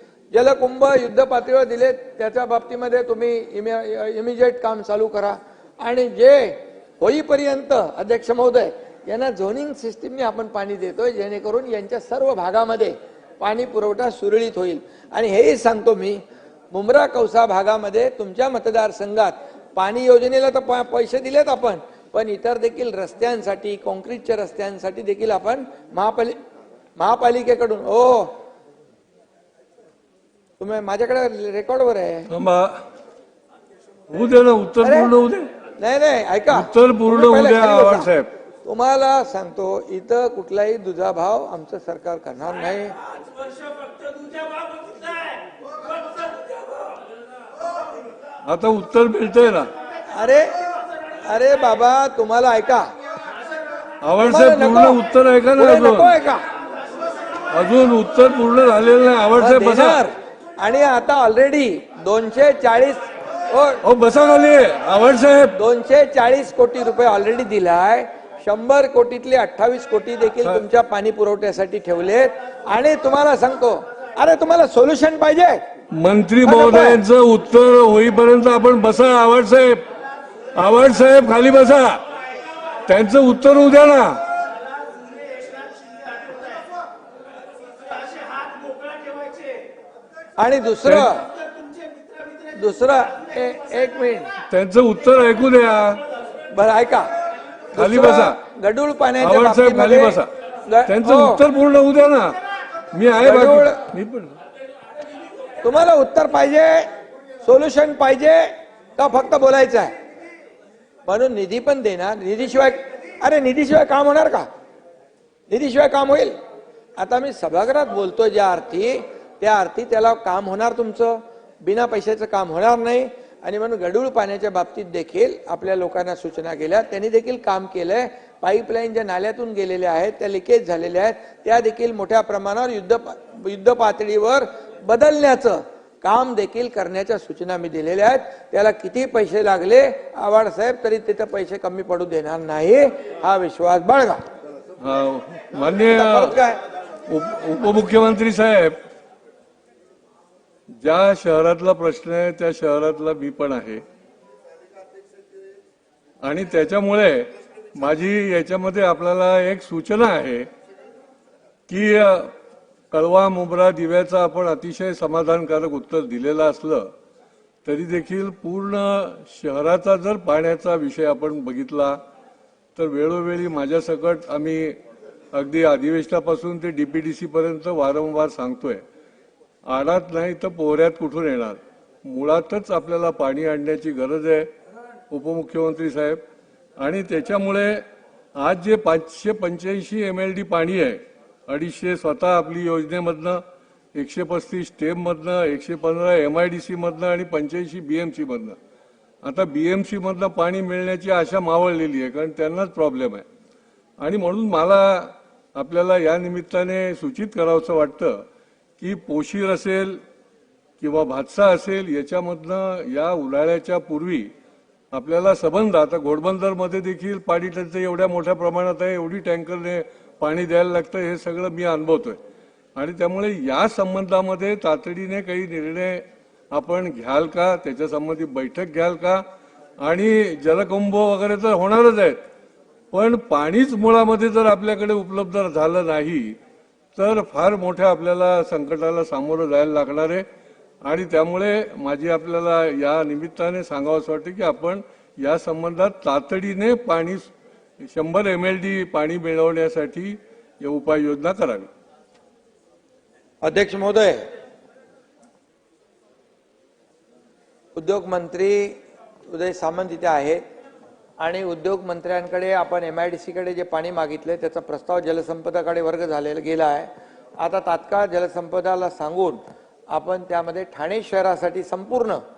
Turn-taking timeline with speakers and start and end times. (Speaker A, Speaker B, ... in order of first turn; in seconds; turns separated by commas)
Speaker A: 0.3-26.4, Speaker A: 27.0-28.4, Speaker A: 30.6-32.3, Speaker B: 32.3-32.8, Speaker B: 34.1-35.5, Speaker A: 34.8-35.1, Speaker A: 35.8-38.1, Speaker B: 36.5-38.3, Speaker A: 38.6-43.0, Speaker B: 48.4-49.7, Speaker A: 50.1-50.6, Speaker A: 51.2-52.9, Speaker B: 54.0-56.1, Speaker A: 54.2-55.0, Speaker A: 55.6-56.4, Speaker B: 57.5-60.0, Speaker A: 59.4-63.8, Speaker B: 63.8-65.5, Speaker A: 65.5-75.6, Speaker B: 75.9-79.8, Speaker A: 76.4-77.0, Speaker B: 80.5-82.0, Speaker B: 82.8-84.2, Speaker A: 90.4-91.2, Speaker A: 92.5-94.3, Speaker B: 94.5-96.0, Speaker A: 96.5-97.1, Speaker A: 97.7-101.4, Speaker B: 97.7-98.3, Speaker B: 99.2-100.3, Speaker B: 100.8-102.3, Speaker B: 102.9-104.4, Speaker A: 103.2-103.8, Speaker A: 105.6-106.9, Speaker A: 107.4-109.9, Speaker A: 111.0-114.5, Speaker A: 115.5-116.3, Speaker A: 117.0-144.2, Speaker B: 144.8-146.3, Speaker A: 145.9-146.6, Speaker B: 147.1-148.8, Speaker B: 150.8-153.8, Speaker B: 156.2-160.5, Speaker B: 161.7-162.3, Speaker B: 162.9-166.9, Speaker B: 167.6-172.0, Speaker B: 172.8-174.8, Speaker B: 175.3-178.8, Speaker B: 179.7-184.5, Speaker B: 185.1-186.2, Speaker B: 186.8-187.8, Speaker B: 188.3-193.4, Speaker B: 193.9-198.6, Speaker B: 199.2-203.2, Speaker B: 204.0-208.2, Speaker B: 208.8-210.0, Speaker B: 210.8-214.3, Speaker B: 214.9-222.2, Speaker B: 222.7-229.2, Speaker B: 229.8-232.2, Speaker B: 232.9-236.4, Speaker B: 236.9-240.2, Speaker B: 240.8-251.7, Speaker A: 253.4-254.2, Speaker A: 257.7-258.8, Speaker A: 259.3-260.4, Speaker A: 261.2-269.4, Speaker A: 269.9-272.2